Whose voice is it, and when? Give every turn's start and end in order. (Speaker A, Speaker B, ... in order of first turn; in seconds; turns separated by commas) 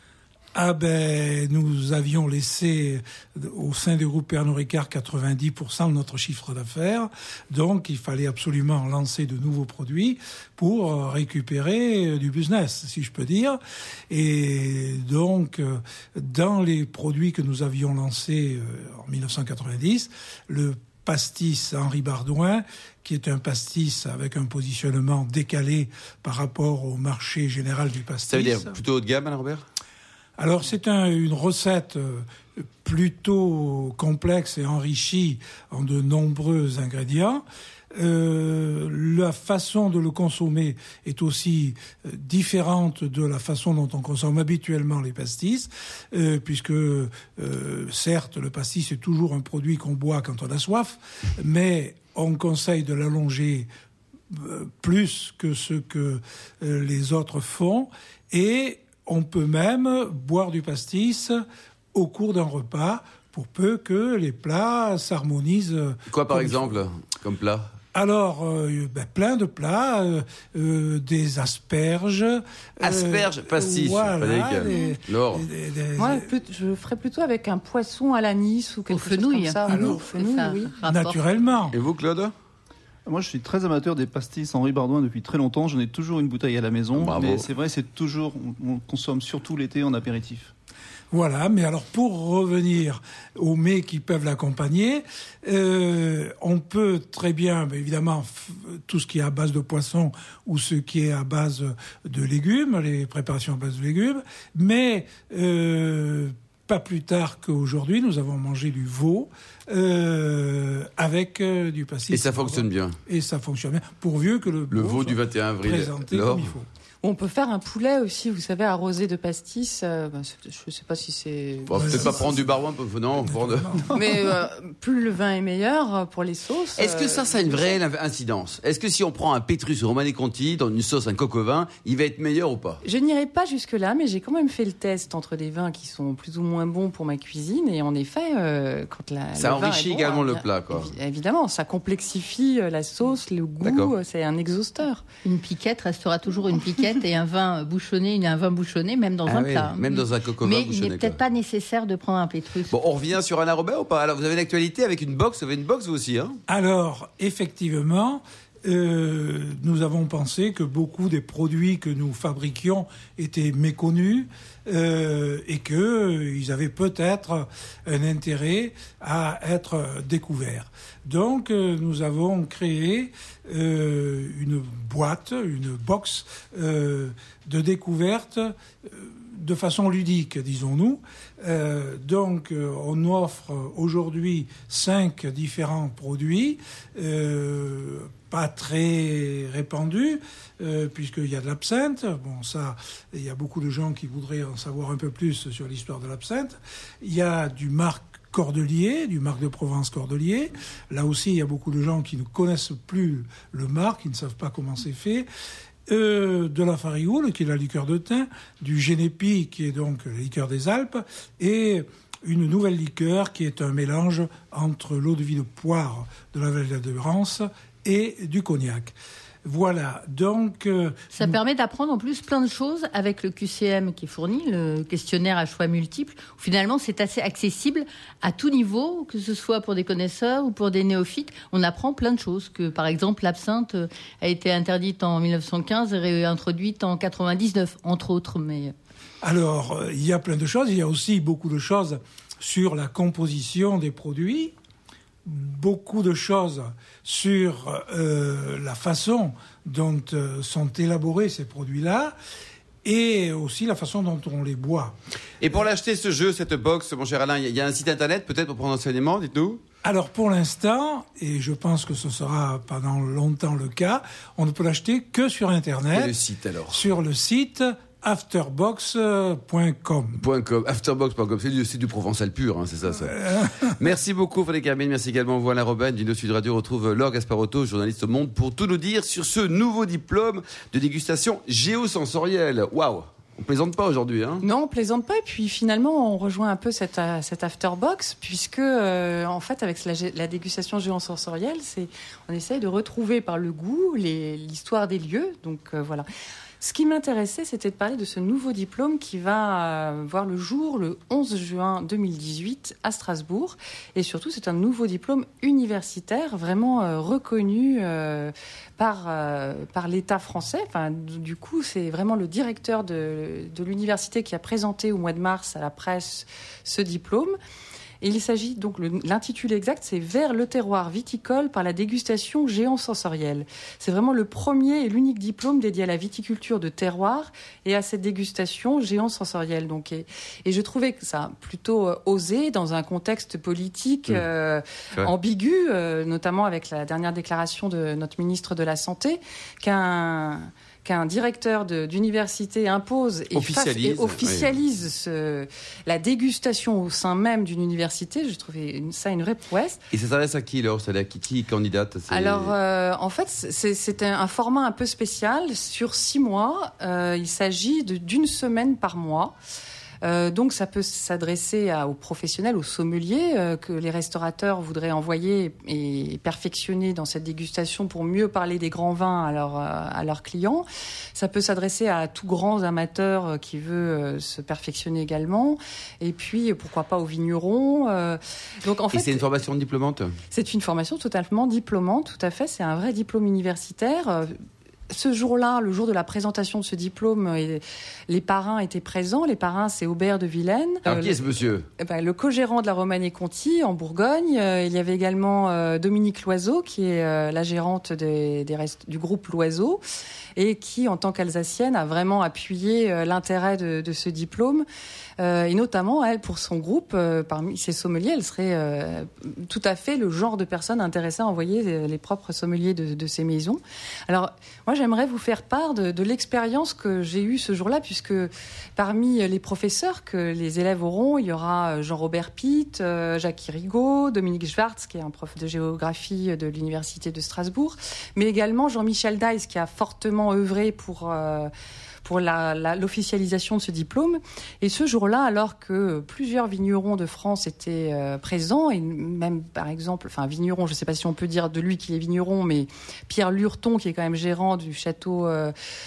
Speaker A: 0.5-13.6, Speaker A: 14.1-28.7, Speaker B: 28.3-29.6, Speaker A: 30.4-37.4, Speaker A: 37.9-53.7, Speaker A: 54.3-61.4, Speaker A: 61.9-66.8, Speaker B: 66.1-67.7, Speaker A: 67.9-76.3, Speaker B: 72.8-75.5, Speaker C: 76.0-80.8, Speaker D: 78.9-81.2, Speaker A: 79.7-80.0, Speaker A: 80.9-81.8, Speaker B: 81.7-82.3, Speaker E: 83.0-90.5, Speaker B: 86.9-87.5, Speaker A: 91.1-116.7, Speaker B: 112.1-113.0, Speaker B: 114.7-116.5, Speaker C: 117.0-122.3, Speaker B: 121.7-123.9, Speaker A: 121.8-122.1, Speaker A: 123.3-124.0, Speaker C: 123.9-127.7, Speaker B: 126.8-132.8, Speaker C: 132.8-145.0, Speaker B: 139.4-140.9, Speaker B: 143.6-143.9, Speaker D: 145.2-152.7, Speaker B: 149.3-151.2, Speaker B: 152.7-156.4, Speaker A: 156.5-205.3, Speaker A: 205.9-218.9, Speaker A: 219.4-221.4, Speaker D: 221.1-238.7, Speaker A: 239.2-244.5, Speaker A: 245.2-252.1, Speaker A: 252.8-254.9, Speaker B: 255.4-259.6, Speaker A: 259.8-266.1, Speaker B: 265.9-266.8, Speaker A: 266.7-270.2, Speaker B: 270.2-284.4, Speaker A: 273.2-273.7, Speaker C: 284.4-296.1, Speaker C: 296.6-317.4, Speaker C: 318.0-349.8, Speaker B: 343.3-344.5, Speaker B: 349.9-352.5, Speaker C: 352.1-359.4, Speaker C: 360.0-379.2, Speaker B: 378.9-380.2, Speaker C: 380.3-384.3, Speaker C: 384.9-391.2, Speaker B: 390.9-391.7, Speaker C: 391.8-399.8, Speaker C: 400.4-404.6, Speaker C: 405.2-431.5, Speaker C: 432.0-445.5